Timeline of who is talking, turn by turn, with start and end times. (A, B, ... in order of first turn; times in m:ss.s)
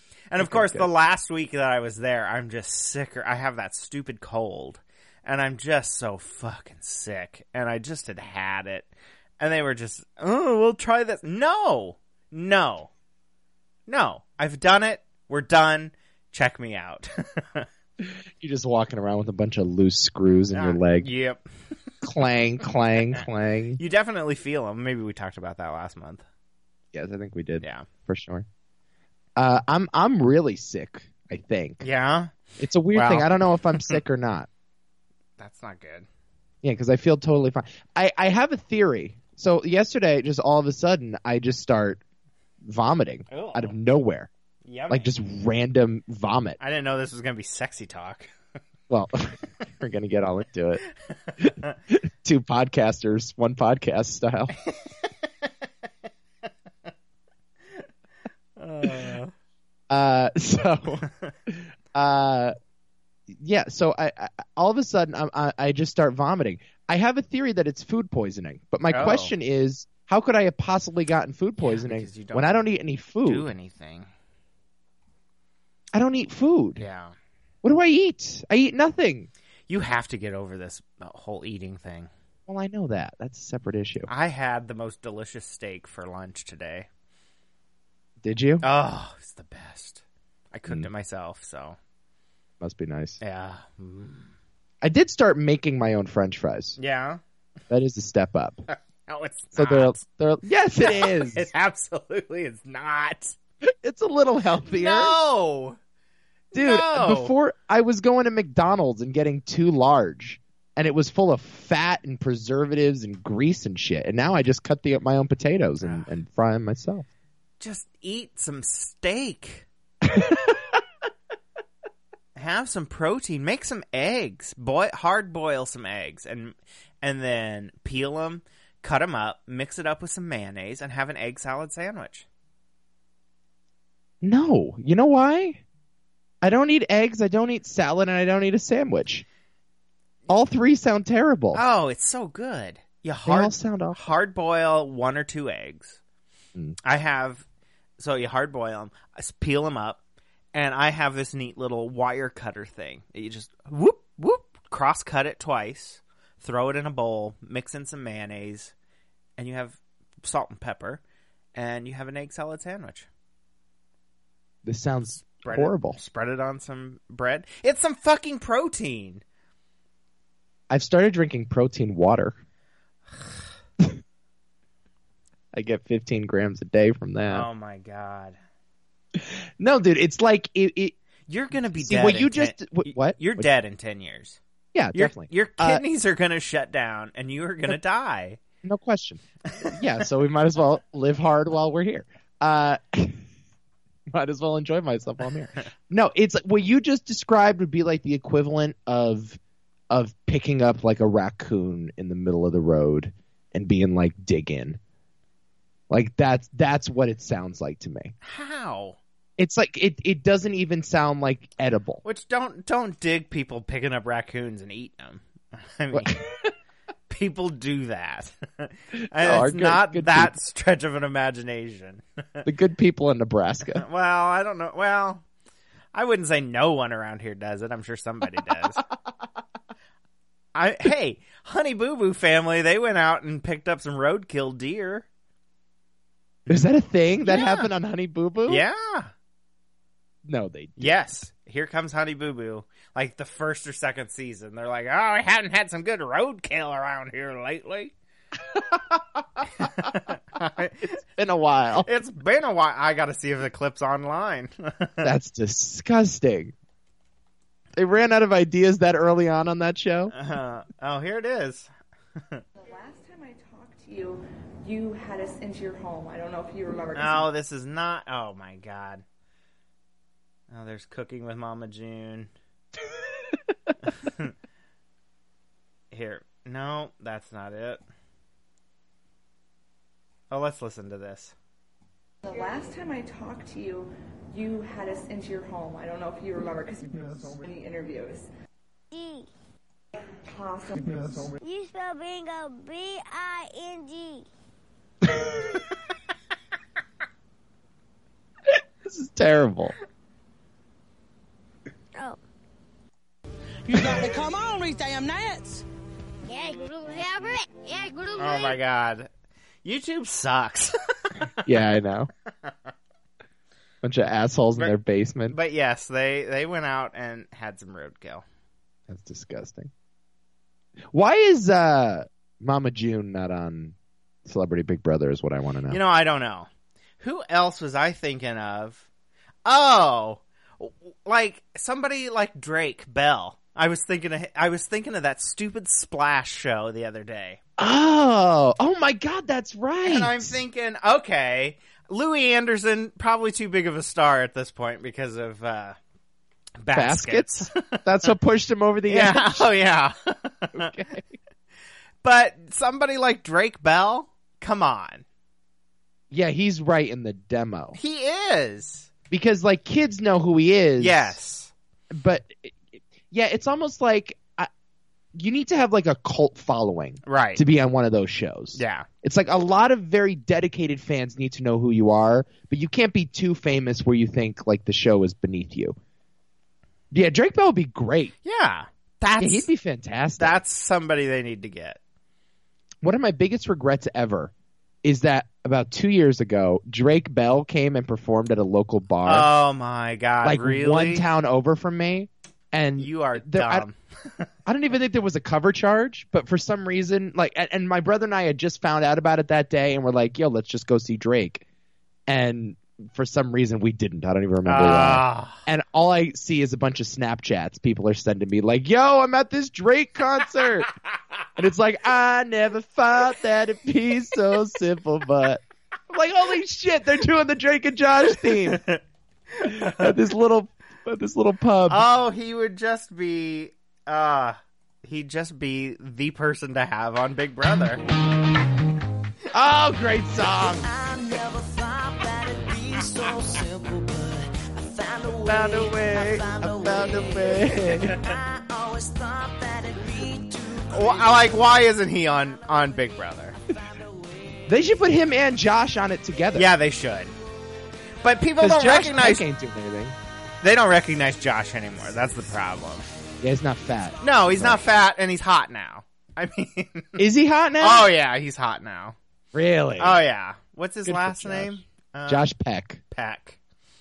0:00.3-0:12.9 A
0:00.4-0:00.9 B
0:13.9-0:17.7 A
0:18.0-0:21.1 B
0:20.5-0:21.4 A
0:22.0-0:23.8 B
0:23.8-0:26.2 A
0:26.9-0:28.4 B
0:27.6-0:27.8 A
0:29.4-0:31.8 B
0:31.8-0:32.3 A
0:32.6-0:34.5 B
0:32.9-0:34.0 A
0:35.4-0:36.1 A
0:36.6-0:42.0 B
0:42.6-0:44.3 B
0:43.3-0:43.8 A
0:44.6-0:45.1 A
0:44.9-0:46.6 B
0:46.6-0:48.3 A
0:48.9-0:50.8 B
0:51.4-0:54.5 B
0:54.7-0:55.5 A
0:58.6-0:59.3 A
0:59.9-1:02.5 B
1:03.3-1:13.5 B
1:08.9-1:09.3 A
1:11.6-1:12.6 A
1:13.2-1:14.1 A
1:15.9-1:16.8 B
1:16.8-1:17.1 A
1:17.6-1:19.3 B
1:19.7-1:22.1 A
1:22.5-1:24.1 B
1:24.1-1:26.9 A
1:28.2-1:28.6 B
1:28.6-1:31.8 A
1:32.6-1:33.2 B
1:33.2-1:34.3 A
1:34.8-1:36.8 B
1:36.8-1:37.2 A
1:37.7-1:38.6 B
1:38.7-1:40.0 A
1:39.5-1:41.5 B
1:40.8-1:43.4 A
1:43.7-1:45.1 B
1:44.6-1:45.8 A
1:46.5-1:47.3 A
1:46.5-1:57.0 B
1:55.8-1:56.1 A
1:57.6-1:59.7 A
2:00.0-2:00.8 B
2:02.4-2:12.2 A
2:14.2-2:15.6 B
2:16.4-2:19.2 B
2:20.3-2:21.6 B
2:21.5-2:26.0 A
2:23.2-2:24.0 B
2:26.8-2:27.4 A
2:28.0-2:30.0 A
2:30.5-2:38.7 A
2:39.4-2:41.0 A
2:41.5-2:43.1 A
2:44.6-2:46.0 B
2:45.3-2:49.2 A
2:50.7-2:52.4 B
2:55.5-2:57.5 B
2:57.3-2:58.4 A
2:59.2-3:01.0 B
3:01.3-3:04.4 A
3:01.7-3:03.5 B
3:04.7-3:05.8 B
3:04.9-3:08.4 A
3:08.6-3:13.2 B
3:14.1-3:19.4 B
3:19.9-3:24.8 B
3:25.9-3:28.1 B
3:28.2-3:29.0 A
3:29.4-3:32.0 B
3:32.0-3:36.2 A
3:35.9-3:36.5 B
3:37.1-3:42.5 A
3:39.2-3:40.3 B
3:42.4-3:43.8 B
3:43.7-3:45.2 A
3:45.9-3:48.8 A
3:48.4-3:48.7 B
3:50.5-3:55.0 A
3:56.5-3:58.6 B
3:57.2-3:57.7 A
3:58.5-3:59.1 A
4:00.2-4:00.9 B
4:00.8-4:07.9 A
4:08.4-4:09.9 B
4:09.6-4:10.9 A
4:10.9-4:11.9 B
4:11.8-4:15.1 A
4:15.0-4:16.5 B
4:17.7-4:20.1 B
4:20.1-4:22.4 A
4:22.6-4:27.3 C
4:26.9-4:29.0 A
4:30.5-4:32.3 A
4:33.8-4:34.3 A
4:35.9-4:37.8 A
4:40.3-4:41.3 A
4:42.2-4:48.3 C
4:48.9-4:49.3 D
4:50.2-4:51.4 C
4:51.4-4:54.2 D
4:58.8-4:59.7 B
5:03.7-5:05.6 E
5:06.2-5:08.6 D
5:08.2-5:09.1 A
5:09.6-5:11.3 A
5:11.4-5:12.1 B
5:13.8-5:15.4 B
5:15.3-5:18.2 A
5:18.9-5:19.7 B
5:20.9-5:23.7 B
5:24.2-5:25.8 B
5:25.7-5:26.5 A
5:27.0-5:28.8 A
5:29.4-5:37.4 A
5:37.6-5:40.4 B
5:39.8-5:45.8 A
5:46.6-5:48.1 A
5:46.7-5:49.5 B
5:48.9-5:50.7 A
5:50.6-5:51.0 B
5:52.0-5:55.0 A
5:56.1-5:57.8 B
5:57.8-5:58.9 A
5:59.1-6:01.1 B
6:00.8-6:01.5 A
6:01.9-6:04.5 B
6:05.1-6:15.7 B
6:07.0-6:07.4 A
6:08.5-6:08.9 A
6:16.9-6:18.1 B
6:18.2-6:19.5 A
6:19.2-6:20.4 B
6:20.2-6:21.8 A
6:22.8-6:24.3 B
6:24.8-6:29.3 B
6:29.0-6:31.0 A
6:30.2-6:33.6 B
6:32.8-6:34.3 A
6:34.4-6:41.4 B
6:42.1-6:50.7 B
6:44.4-6:45.4 A
6:51.4-6:58.6 B
6:58.3-6:58.8 A
6:59.4-6:59.9 A
6:59.4-7:01.8 B
7:01.7-7:07.8 A
7:09.3-7:10.7 B
7:10.4-7:21.3 E
7:15.3-7:18.0 B
7:15.4-7:16.2 A
7:20.7-7:23.4 A
7:23.5-7:24.4 E
7:24.5-7:26.5 B
7:26.3-7:27.1 A
7:28.0-7:29.2 A
7:28.4-7:30.0 B
7:30.4-7:32.9 A
7:33.2-7:34.6 B
7:34.0-7:37.0 A
7:37.0-7:37.9 B
7:37.6-7:39.0 A
7:39.3-7:40.0 B
7:39.8-7:42.3 A
7:40.8-7:42.8 B
7:42.9-7:43.4 A